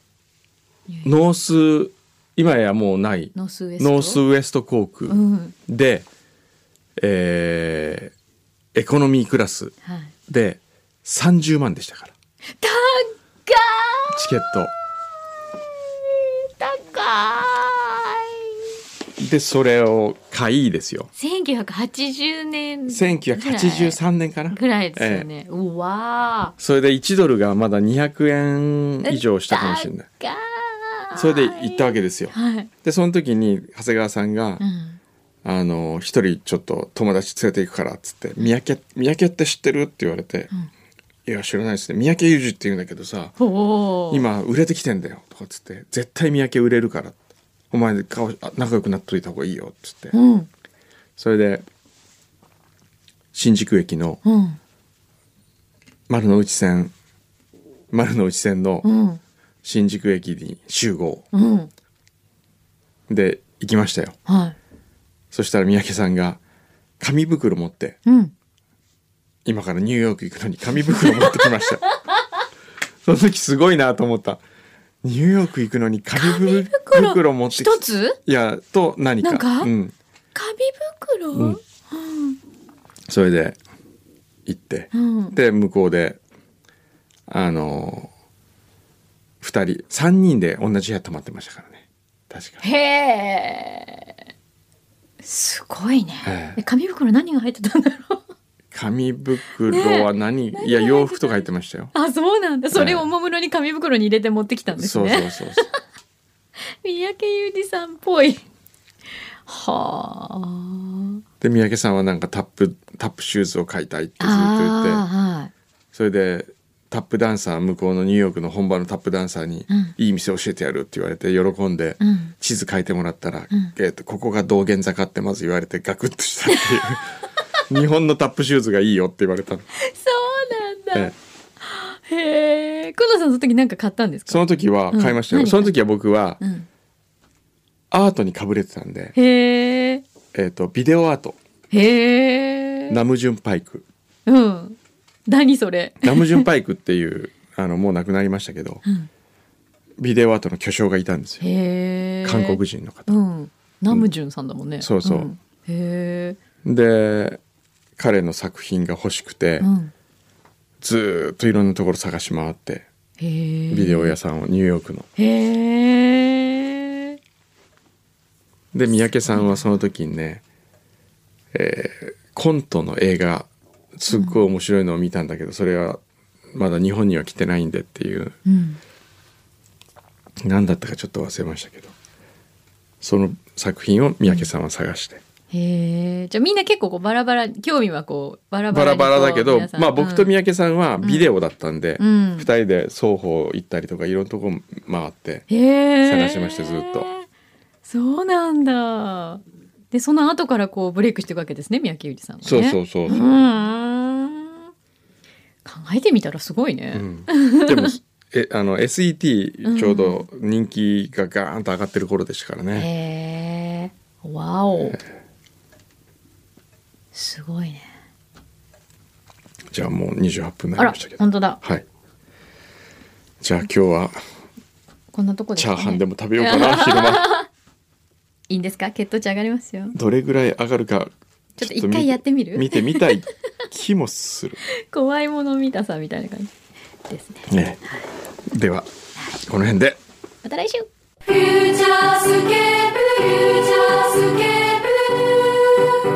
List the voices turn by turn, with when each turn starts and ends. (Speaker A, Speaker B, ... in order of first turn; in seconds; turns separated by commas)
Speaker A: 0.9-1.1, Speaker B: 1.1-6.1, Speaker A: 3.4-4.2, Speaker A: 5.1-5.5, Speaker B: 7.0-8.1, Speaker B: 8.8-9.7, Speaker A: 9.8-10.1, Speaker B: 10.3-12.1, Speaker A: 12.6-14.2, Speaker B: 14.1-14.7, Speaker A: 16.1-18.4, Speaker B: 19.2-21.1, Speaker A: 21.2-24.0, Speaker B: 22.9-25.3, Speaker A: 24.5-26.5, Speaker B: 26.6-30.1, Speaker A: 29.1-32.7, Speaker B: 31.2-34.6, Speaker A: 34.6-35.0, Speaker B: 35.4-40.5, Speaker B: 41.3-43.4, Speaker A: 43.4-44.2, Speaker B: 44.1-47.2, Speaker B: 47.7-50.1, Speaker A: 50.1-50.5, Speaker B: 51.2-51.6, Speaker B: 53.3-54.2, Speaker A: 54.2-54.6, Speaker B: 56.1-56.9, Speaker B: 57.9-58.9, Speaker A: 58.8-59.2, Speaker B: 59.6-61.3, Speaker A: 61.3-61.7, Speaker B: 63.1-64.2, Speaker A: 64.3-64.6, Speaker B: 65.3-66.4, Speaker B: 67.0-68.0, Speaker A: 68.1-68.3, Speaker B: 69.5-71.8, Speaker A: 71.0-71.6, Speaker B: 73.0-74.4, Speaker B: 75.0-80.0, Speaker A: 76.2-78.2, Speaker A: 79.2-79.7, Speaker A: 80.3-82.4, Speaker B: 81.3-81.6, Speaker B: 83.1-83.6, Speaker B: 84.5-86.2, Speaker A: 84.9-85.3, Speaker B: 87.3-88.1, Speaker B: 89.4-92.6, Speaker A: 92.6-94.1, Speaker A: 95.2-98.2, Speaker B: 96.2-96.6, Speaker B: 98.7-101.9, Speaker A: 99.7-101.4, Speaker A: 101.9-105.6, Speaker B: 102.7-103.1, Speaker B: 104.8-105.7, Speaker A: 106.8-108.4, Speaker A: 109.5-111.2, Speaker B: 111.4-115.0, Speaker A: 114.2-115.5, Speaker B: 115.9-129.7, Speaker A: 122.0-122.3, Speaker A: 129.8-135.7, Speaker B: 134.3-136.4, Speaker A: 136.4-136.7, Speaker B: 137.9-139.2, Speaker A: 139.2-140.0, Speaker B: 140.3-141.4, Speaker A: 141.7-143.0, Speaker B: 142.9-143.8, Speaker A: 144.3-146.5, Speaker B: 146.0-148.8, Speaker B: 150.0-151.4, Speaker A: 151.4-156.4, Speaker B: 152.2-153.1, Speaker B: 154.8-155.3, Speaker B: 156.6-157.4, Speaker B: 158.0-159.7, Speaker A: 159.6-159.9, Speaker B: 160.8-162.9, Speaker A: 163.2-164.2, Speaker B: 163.7-165.1, Speaker A: 165.2-167.2, Speaker B: 168.7-170.4, Speaker A: 169.3-169.6, Speaker B: 171.5-176.0, Speaker A: 174.1-174.4, Speaker B: 176.5-178.4, Speaker A: 178.5-178.8, Speaker B: 180.4-181.9, Speaker B: 183.0-185.2, Speaker A: 185.5-190.3, Speaker B: 188.7-195.5, Speaker A: 191.0-191.3, Speaker A: 192.0-192.5, Speaker A: 195.5-197.2, Speaker B: 196.0-197.1, Speaker A: 197.8-204.7, Speaker B: 202.4-203.4, Speaker A: 205.7-208.0, Speaker B: 206.9-212.9, Speaker A: 209.7-210.2, Speaker A: 212.8-215.0, Speaker A: 217.1-217.9, Speaker B: 219.7-221.8, Speaker A: 220.8-221.6, Speaker B: 223.4-224.2, Speaker A: 225.1-227.5, Speaker B: 225.6-227.3, Speaker A: 228.5-230.0, Speaker B: 229.9-234.6, Speaker A: 231.6-233.1, Speaker A: 234.7-236.5, Speaker A: 237.1-238.1, Speaker B: 237.5-237.8, Speaker B: 238.5-238.9, Speaker B: 239.4-240.0, Speaker A: 240.4-240.9, Speaker C: 241.3-245.7